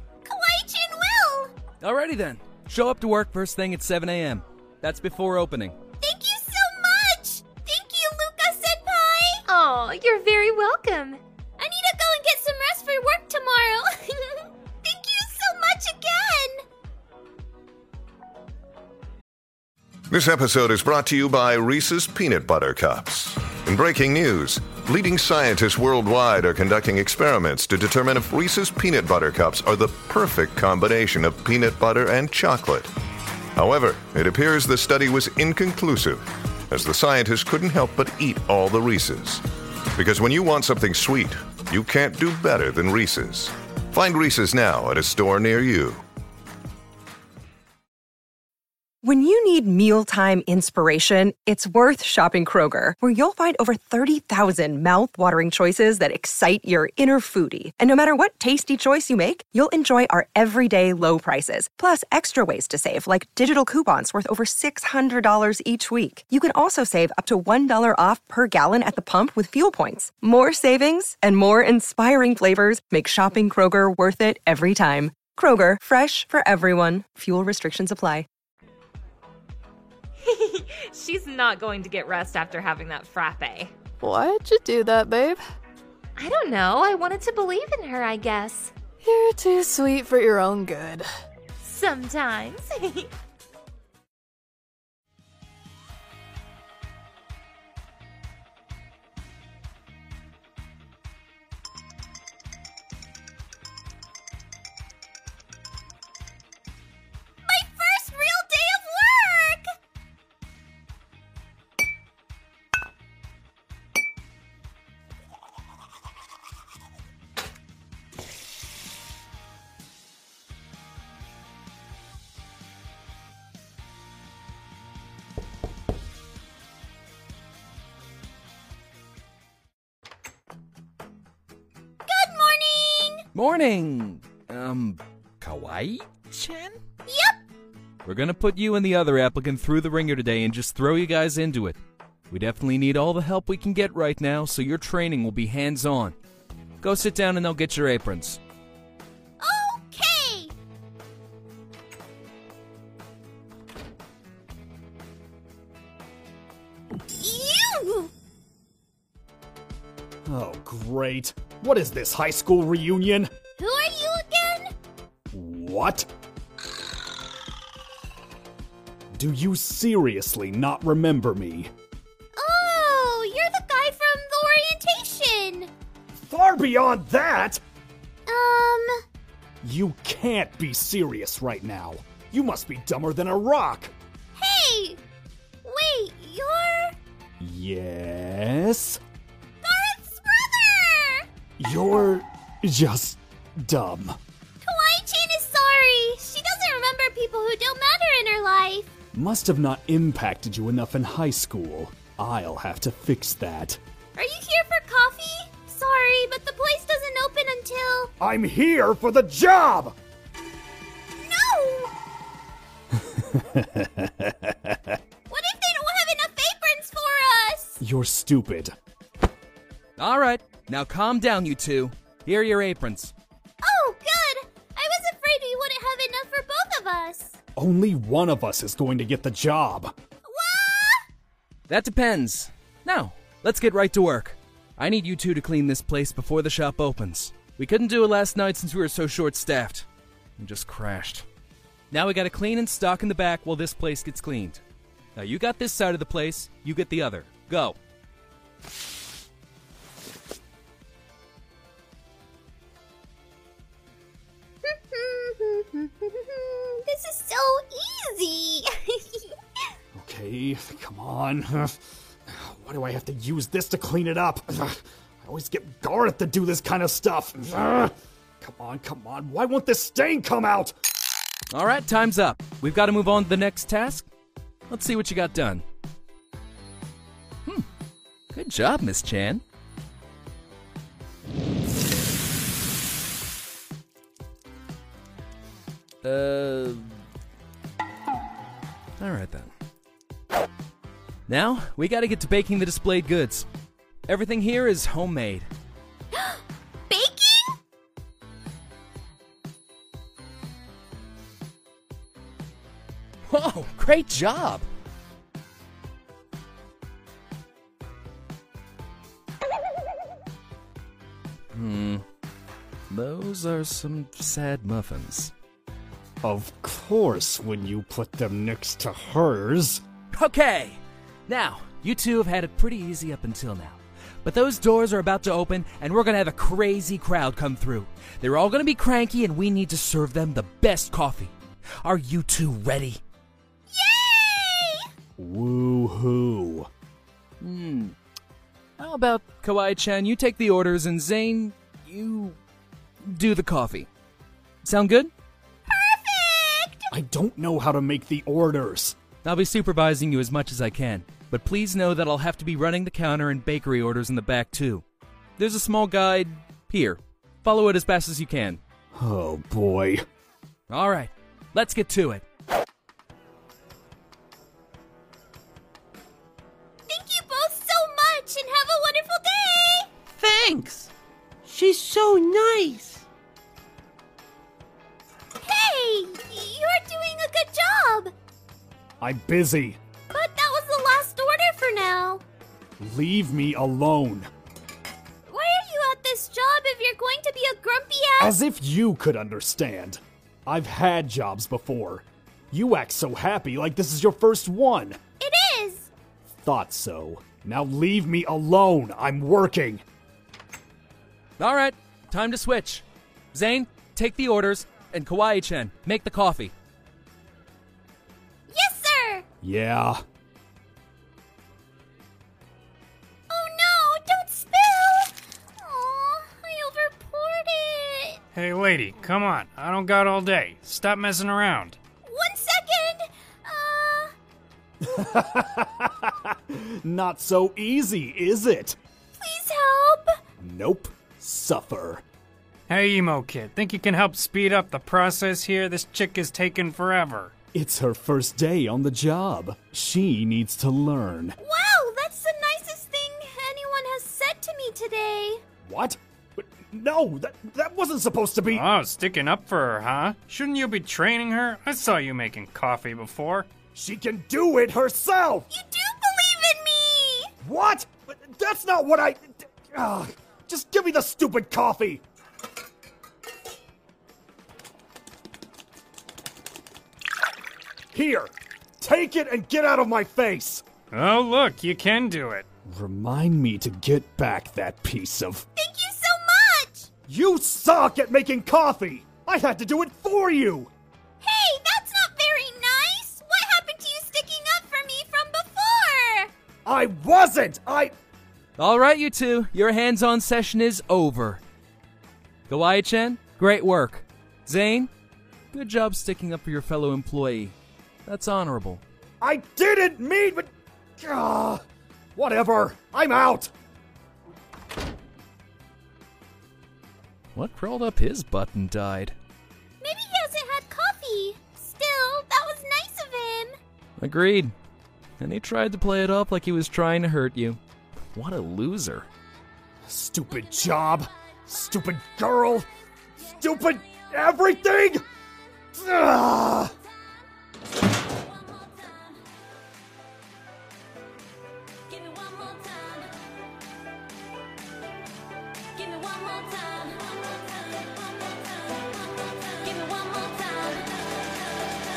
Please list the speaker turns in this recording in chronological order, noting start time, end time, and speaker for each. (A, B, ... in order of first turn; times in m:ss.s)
0:00.3-0:01.5 A
0:01.8-0:05.8 B
0:06.0-0:09.4 A
0:09.4-0:11.2 C
0:11.6-0:16.6 A
0:20.1-0:32.9 D
0:33.6-0:39.4 D
0:39.9-0:46.0 D
0:49.0-1:18.2 E
1:20.2-1:23.7 C
1:24.0-1:25.4 F
1:26.2-1:28.7 C
1:29.0-1:31.0 F
1:31.6-1:33.1 C
1:47.5-1:49.6 A
2:12.1-2:13.2 A
2:13.3-2:16.8 B
2:17.0-2:17.4 A
2:18.0-2:26.1 B
2:26.8-2:28.4 B
2:29.4-2:30.5 A
2:37.2-2:38.1 A
2:40.2-2:43.3 G
2:43.6-2:44.7 A
2:45.3-2:46.1 G
2:49.1-2:51.7 G
2:52.4-2:55.7 A
2:56.2-2:57.6 G
2:58.3-2:58.9 A
2:59.6-3:03.9 G
3:04.4-3:05.0 A
3:05.6-3:06.9 A
3:07.4-3:09.0 G
3:09.7-3:11.2 A
3:11.6-3:14.2 G
3:14.6-3:18.8 A
3:19.1-3:23.8 G
3:24.2-3:28.1 A
3:28.2-3:30.0 G
3:31.2-3:31.9 A
3:33.0-3:35.0 G
3:35.3-3:37.8 A
3:37.8-3:38.7 G
3:40.0-3:43.1 B
3:43.6-3:47.4 A
3:47.6-3:49.9 G
3:50.3-3:51.0 A
3:51.7-3:59.9 B
4:00.4-4:01.2 B
4:01.9-4:04.6 B
4:05.2-4:07.8 B
4:14.6-4:19.2 A
4:19.9-4:21.8 G
4:22.3-4:30.7 G
4:31.5-4:34.1 B
4:34.7-4:35.6 B
4:38.3-4:39.4 B
4:46.0-4:47.0 B
4:49.0-4:49.5 B
4:51.3-4:53.5 B
4:54.1-4:55.5 B
4:56.9-4:57.4 A
5:03.3-5:04.6 B
5:11.5-5:12.0 B
5:12.9-5:15.3 B
5:16.2-5:19.8 G
5:20.1-5:33.0 B
5:33.7-5:34.8 A
5:35.2-5:36.7 G
5:37.4-5:38.0 B
5:38.8-5:42.4 B
5:43.0-5:43.9 B
5:44.6-5:45.1 B
5:45.7-5:46.9 A
5:46.9-5:49.0 G
5:49.2-5:54.8 B
5:55.4-5:58.6 B
5:58.9-6:00.0 G
6:00.7-6:02.2 B
6:06.9-6:09.8 A
6:10.2-6:10.9 H
6:11.5-6:13.0 H
6:15.4-6:18.1 A
6:19.0-6:19.8 G
6:20.1-6:22.2 A
6:22.8-6:24.3 G
6:25.3-6:28.3 A
6:28.2-6:35.0 G
6:35.2-6:35.9 A
6:36.4-6:39.8 G
6:41.4-6:46.5 B
6:48.5-6:49.2 A
6:49.4-6:50.0 G
6:53.3-6:58.2 A
6:58.4-7:01.8 H
7:02.1-7:04.1 A
7:04.8-7:08.8 G
7:09.2-7:10.0 A
7:10.4-7:12.0 G
7:12.7-7:17.3 H
7:17.5-7:21.4 G
7:21.4-7:25.4 A
7:25.6-7:28.7 G
7:28.6-7:33.5 H
7:33.7-7:35.5 G
7:35.6-7:37.3 A
7:37.4-7:42.0 G
7:47.9-7:50.6 G
7:50.9-7:52.4 H
7:52.7-7:55.4 G
7:55.6-7:56.9 A
7:57.1-8:00.7 G
8:01.2-8:06.3 A
8:06.6-8:07.9 G
8:08.6-8:11.4 B
8:12.5-8:14.9 B
8:15.5-8:17.5 B
8:18.0-8:18.8 B
8:19.2-8:21.6 G
8:22.2-8:23.5 G
8:27.3-8:29.1 B
8:29.8-8:33.5 A
8:34.0-8:34.5 B
8:35.2-8:37.6 B
8:38.1-8:39.1 B
8:39.9-8:42.7 G
8:43.2-8:45.0 G
8:45.7-8:46.7 G